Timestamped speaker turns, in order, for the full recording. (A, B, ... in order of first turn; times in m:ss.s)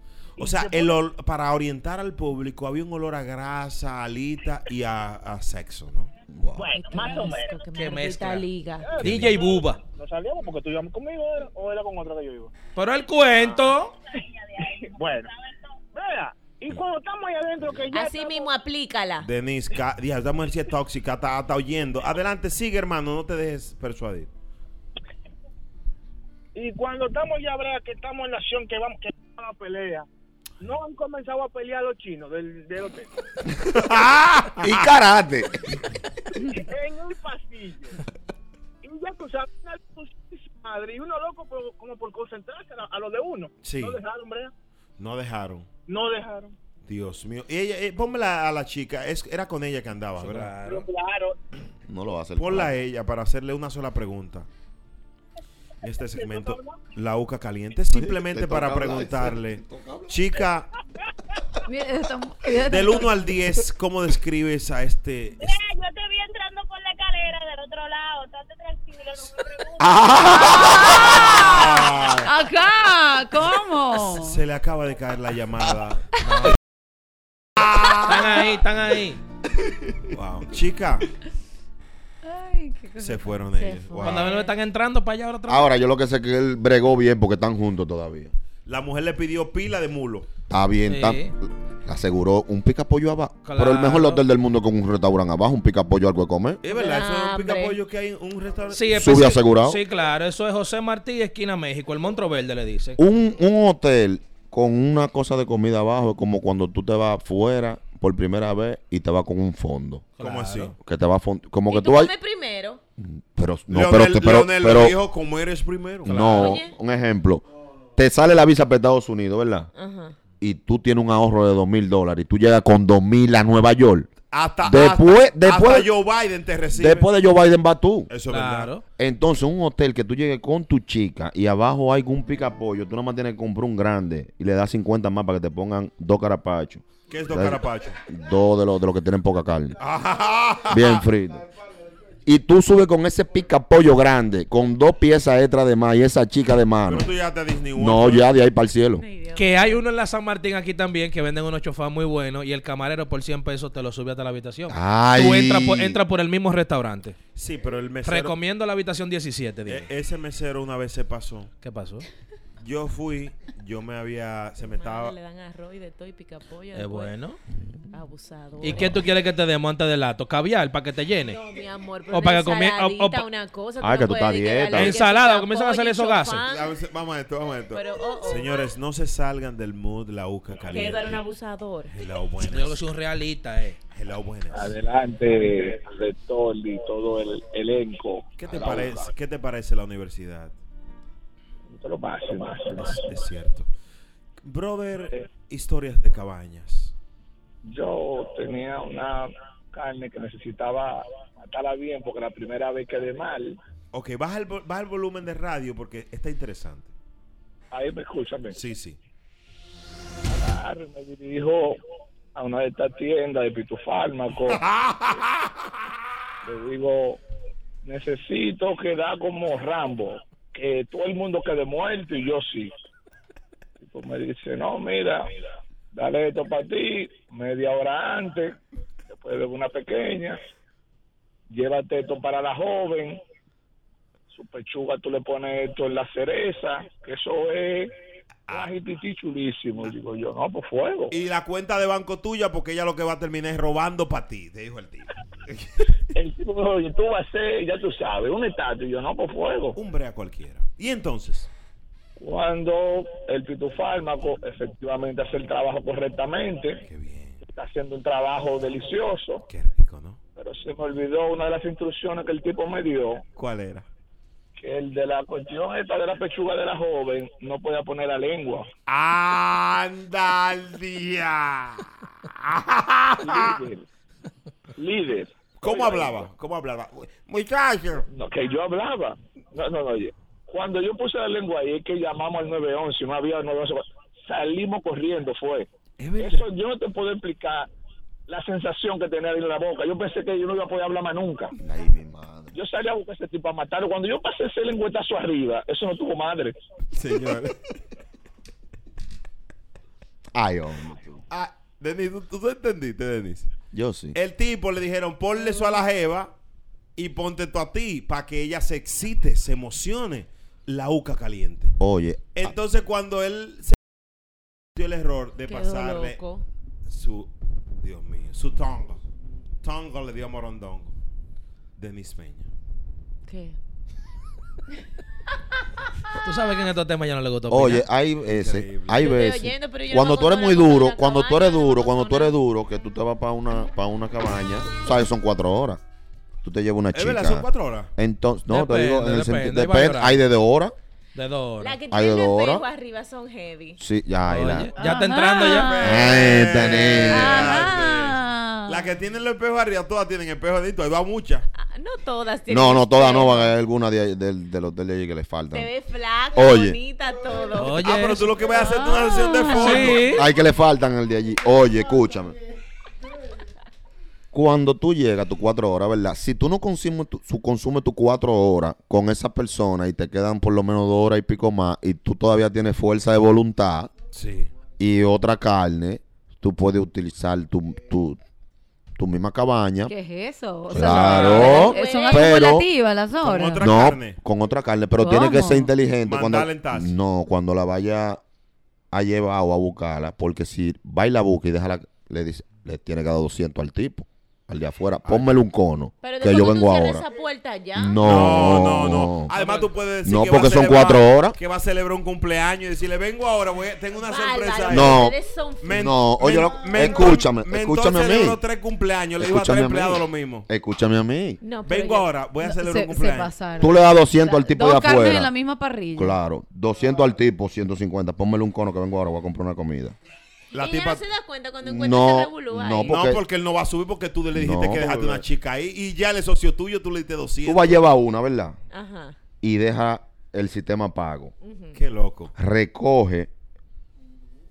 0:00.4-0:06.1 A
0:00.4-0:01.0 B
0:06.3-0:06.7 C
0:06.6-0:07.7 B
0:06.7-0:09.0 D
0:07.7-0:09.8 E
0:08.8-0:12.5 B
0:09.0-0:09.4 A
0:12.7-0:13.9 E
0:14.6-0:15.3 B
0:15.9-0:18.5 B
0:17.9-0:19.3 D
0:19.2-0:24.3 A
0:26.5-0:30.1 B
0:30.6-0:33.1 B
0:33.7-0:34.9 A
0:34.6-0:35.6 C
0:36.5-0:38.0 B
0:38.8-0:44.5 B
0:43.6-0:44.0 A
0:45.0-0:45.7 A
0:45.9-0:46.5 B
0:46.8-0:50.6 A
0:50.2-0:50.9 E
0:50.6-0:51.3 B
0:51.9-0:52.7 C
0:52.4-0:54.5 A
0:55.8-1:00.7 A
0:56.2-0:56.8 B
0:57.9-1:00.2 C
1:01.6-1:03.1 F
1:02.6-1:05.5 A
1:05.4-1:10.1 G
1:09.8-1:11.6 C
1:10.4-1:11.5 F
1:11.0-1:12.3 A
1:12.1-1:14.4 F
1:14.1-1:16.1 A
1:16.2-1:16.6 E
1:17.6-1:18.1 C
1:17.9-1:19.2 E
1:20.1-1:21.0 A
1:22.2-1:23.7 F
1:23.0-1:24.4 A
1:23.6-1:24.5 D
1:24.0-1:25.7 E
1:25.5-1:28.3 C
1:28.6-1:30.3 A
1:30.5-1:36.6 C
1:30.8-1:31.3 E
1:33.4-1:34.2 E
1:36.6-1:39.3 A
1:36.7-1:37.8 D
1:38.7-1:43.0 E
1:38.9-1:39.8 C
1:43.0-1:50.0 C
1:50.2-1:50.7 E
1:50.2-1:50.7 A
1:50.8-1:52.1 C
1:51.7-1:52.8 D
1:53.0-1:55.0 C
1:53.7-1:56.3 A
1:56.0-1:56.6 E
1:56.0-1:57.4 C
1:56.4-1:56.7 D
1:58.0-1:59.7 C
1:59.7-2:00.2 D
2:00.4-2:05.9 C
2:04.3-2:07.1 A
2:06.7-2:08.1 C
2:08.1-2:08.8 A
2:08.3-2:08.8 E
2:09.0-2:19.8 C
2:17.1-2:18.0 A
2:19.8-2:21.0 A
2:20.7-2:21.5 C
2:22.2-2:27.1 C
2:26.8-2:28.3 A
2:27.8-2:29.0 C
2:28.9-2:29.8 D
2:29.3-2:37.2 E
2:34.7-2:36.0 C
2:37.4-2:38.3 A
2:38.0-2:39.9 E
2:39.7-2:41.5 A
2:41.6-2:42.0 E
2:42.6-2:45.1 A
2:44.6-2:47.1 D
2:46.7-2:47.4 E
2:47.9-2:49.0 D
2:48.6-2:51.4 E
2:51.2-2:56.8 D
2:52.1-2:53.3 E
2:53.8-2:55.0 C
2:54.7-2:56.4 E
2:56.4-3:01.2 A
2:57.7-2:58.7 D
3:00.6-3:02.0 D
3:01.9-3:02.8 A
3:02.4-3:03.8 E
3:03.9-3:04.8 A
3:04.5-3:09.1 H
3:08.4-3:10.6 A
3:11.7-3:13.1 H
3:12.7-3:13.7 A
3:14.4-3:16.9 A
3:17.6-3:23.6 H
3:23.9-3:26.9 A
3:27.7-3:28.6 H
3:28.5-3:29.0 A
3:30.3-3:31.8 H
3:32.3-3:34.6 H
3:34.4-3:35.5 A
3:36.4-3:37.2 H
3:37.8-3:42.7 H
3:43.8-3:45.3 H
3:45.9-3:48.6 H
3:49.1-3:50.4 H
3:51.5-3:53.2 H
3:54.3-3:57.9 H
3:58.5-4:01.1 H
4:01.1-4:05.7 A
4:06.1-4:09.8 H
4:09.8-4:11.5 A
4:12.2-4:16.8 H
4:16.8-4:17.4 A
4:17.4-4:19.4 H
4:19.5-4:20.2 A
4:20.4-4:23.2 H
4:23.4-4:23.8 A
4:24.6-4:28.7 H
4:28.9-4:33.6 A
4:33.2-4:33.8 H
4:34.8-4:36.3 H
4:35.6-4:38.0 A
4:38.1-4:47.7 H
4:46.0-4:46.5 A
4:48.3-4:51.5 H
4:51.6-4:52.6 C
4:52.5-4:56.5 H
4:56.9-4:57.6 A
5:00.3-5:01.2 C
5:01.3-5:03.5 A
5:03.7-5:04.2 C
5:04.1-5:06.3 A
5:07.0-5:11.8 A
5:11.8-5:12.6 C
5:12.3-5:13.8 A
5:14.7-5:16.2 A
5:15.4-5:16.4 D
5:16.8-5:19.0 A
5:19.6-5:20.9 A
5:21.8-5:22.5 A
5:23.2-5:23.6 D
5:26.2-5:27.8 E
5:27.5-5:35.8 C
5:28.2-5:29.1 A
5:29.0-5:32.3 D
5:36.4-5:40.7 C
5:36.9-5:37.9 A
5:38.5-5:40.2 E
5:41.1-5:41.8 E
5:41.6-5:43.8 D
5:41.9-5:42.6 C
5:43.8-5:44.7 C
5:44.3-5:45.8 E
5:44.8-5:46.0 F
5:45.5-5:51.5 A
5:45.8-5:47.6 C
5:47.0-5:48.1 D
5:47.3-5:48.8 F
5:51.5-5:53.5 D
5:52.5-5:55.7 C
5:55.5-5:57.8 D
5:56.3-5:56.8 C
5:57.5-5:58.4 E
5:57.8-6:00.2 A
5:58.5-6:00.0 D
5:58.6-5:59.5 F
5:59.5-6:00.3 E
6:00.1-6:02.4 C
6:04.3-6:13.9 C
6:14.1-6:14.5 A
6:14.8-6:18.2 C
6:19.0-6:19.9 C
6:19.9-6:23.6 F
6:20.7-6:22.7 C
6:20.9-6:22.5 D
6:23.2-6:24.2 A
6:23.6-6:28.2 C
6:25.0-6:25.7 F
6:26.0-6:26.9 A
6:28.9-6:37.0 C
6:35.0-6:35.3 A
6:36.0-6:38.5 D
6:37.7-6:39.3 C
6:38.0-6:50.5 A
6:39.4-6:39.6 E
6:40.0-6:41.4 C
6:44.0-6:45.9 D
6:44.7-6:48.4 C
6:49.2-6:51.4 C
6:51.4-6:52.1 D
6:51.6-6:53.3 A
6:52.4-6:56.2 F
6:53.6-6:55.3 C
6:56.0-7:00.0 C
7:00.5-7:01.0 A
7:00.5-7:03.0 D
7:01.6-7:03.2 C
7:02.8-7:07.8 A
7:04.3-7:05.2 C
7:07.4-7:08.6 C
7:08.7-7:09.2 D
7:09.4-7:11.3 C
7:11.4-7:11.8 D
7:11.7-7:12.3 A
7:12.3-7:13.3 C